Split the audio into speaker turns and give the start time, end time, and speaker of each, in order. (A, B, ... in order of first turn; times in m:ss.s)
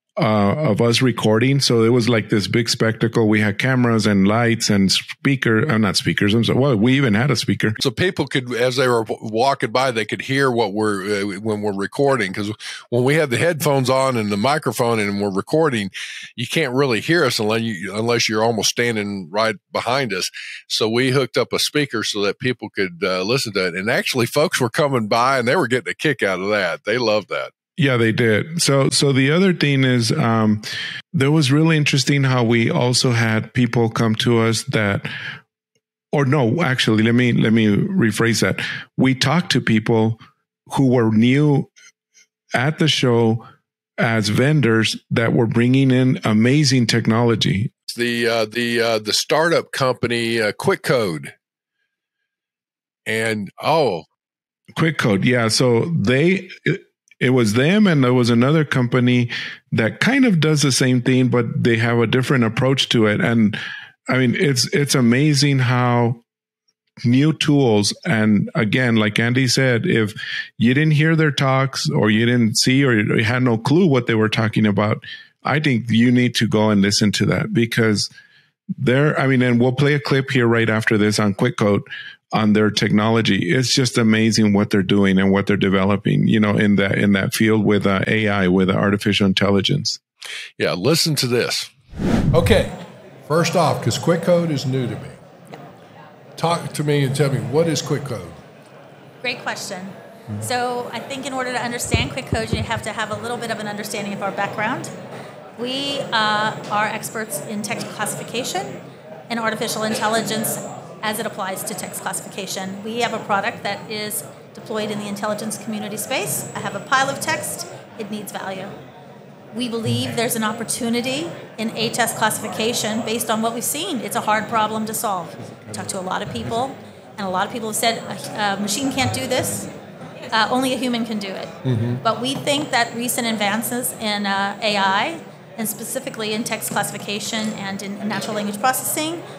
0:00.2-0:07.8 A
0:07.8-0:27.5 B
0:27.8-0:35.1 A
0:36.1-0:41.7 A
0:42.6-0:43.5 A
0:44.0-0:47.7 A
0:47.9-0:51.3 B
0:53.1-0:54.1 B
0:54.8-1:06.2 A
1:07.0-1:18.1 A
1:18.8-1:30.0 A
1:30.6-1:31.7 B
1:32.3-1:35.2 C
1:36.4-1:38.4 C
1:39.2-1:44.9 D
1:45.6-1:58.7 D
1:59.5-2:09.7 D
2:10.3-2:19.2 D
2:11.6-2:12.0 C